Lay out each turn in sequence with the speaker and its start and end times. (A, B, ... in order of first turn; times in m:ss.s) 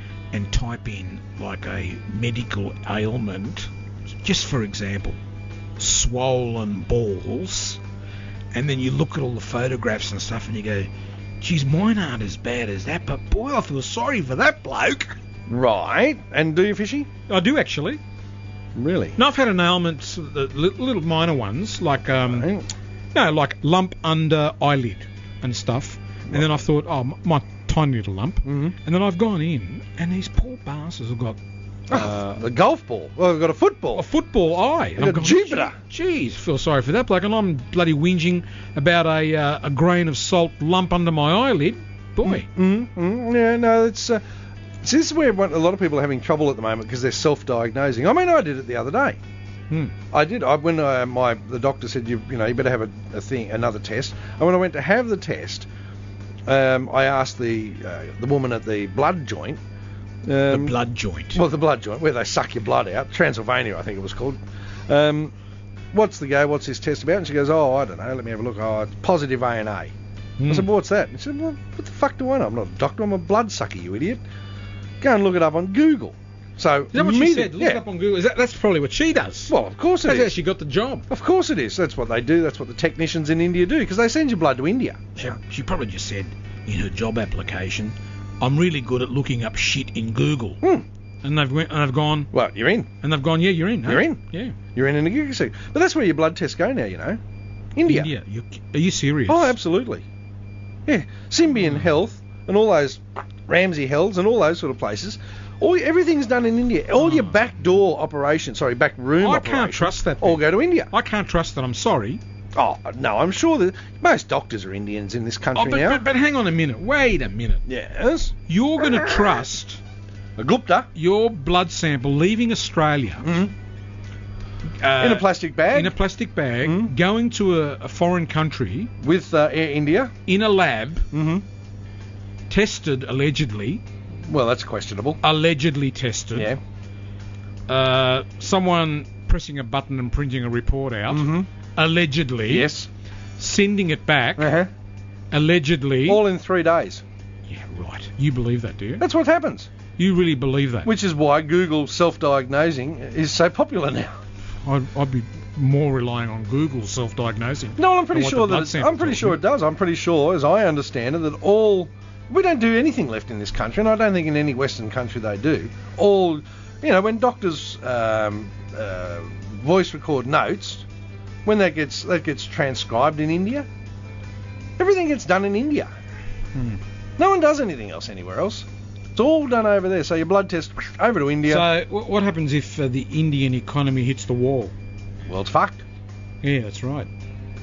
0:00.3-0:03.7 A
0:04.2-0:05.2 A
0:05.8-0:07.8 A
0:08.5-0:10.9 A
0:11.4-0:15.2 A
0:15.5-0:17.1 B
0:17.3-0:18.0 A
0:18.8-0:19.2 B
0:19.2-0:22.5 A
0:22.3-0:22.7 B
0:23.1-0:31.4 A
0:28.4-0:28.7 B
0:31.9-0:34.1 B
0:31.9-0:32.2 A
0:34.0-0:42.5 A
0:35.0-0:35.8 B
0:42.2-0:44.2 B
0:44.8-0:49.2 B
0:50.1-0:55.7 B
0:56.5-0:59.6 B
1:00.3-1:00.8 B
1:00.5-1:01.4 A
1:01.4-1:05.3 B
1:05.9-1:09.9 B
1:10.4-1:10.7 A
1:10.5-1:14.2 B
1:15.0-1:17.8 B
1:16.9-1:21.1 A
1:19.5-1:20.3 B
1:21.1-1:25.1 B
1:25.2-1:30.6 A
1:31.2-1:32.3 A
1:32.3-1:32.9 B
1:33.0-1:34.6 A
1:33.8-1:34.2 B
1:34.8-1:37.2 B
1:37.8-1:38.1 B
1:37.9-1:39.6 A
1:39.3-1:40.0 B
1:40.9-1:50.9 B
1:41.6-1:41.9 A
1:47.0-1:47.7 A
1:49.2-1:52.2 A
1:52.6-1:56.0 B
1:55.6-1:57.6 A
1:57.7-1:59.4 B
1:58.5-1:59.8 A
2:00.4-2:00.9 B
2:00.9-2:03.3 A
2:03.2-2:03.5 B
2:04.8-2:08.9 A
2:05.0-2:06.0 B
2:06.6-2:06.9 B
2:09.0-2:10.1 B
2:10.3-2:11.1 A
2:11.1-2:11.4 B
2:12.5-2:13.8 A
2:14.3-2:15.2 B
2:15.2-2:16.5 A
2:17.7-2:22.7 A
2:21.1-2:21.5 B
2:22.5-2:22.9 B
2:23.4-2:24.5 A
2:24.4-2:24.7 B
2:25.3-2:26.2 A
2:26.1-2:27.0 B
2:27.5-2:29.0 A
2:29.0-2:29.7 B
2:30.0-2:30.9 A
2:30.8-2:34.1 B
2:34.6-2:39.4 A
2:37.8-2:50.8 B
2:51.4-2:53.7 B
2:54.8-2:55.9 B
2:56.6-2:56.8 A
2:57.2-3:01.7 B
3:01.5-3:04.7 A
3:05.3-3:05.8 B
3:06.4-3:07.1 A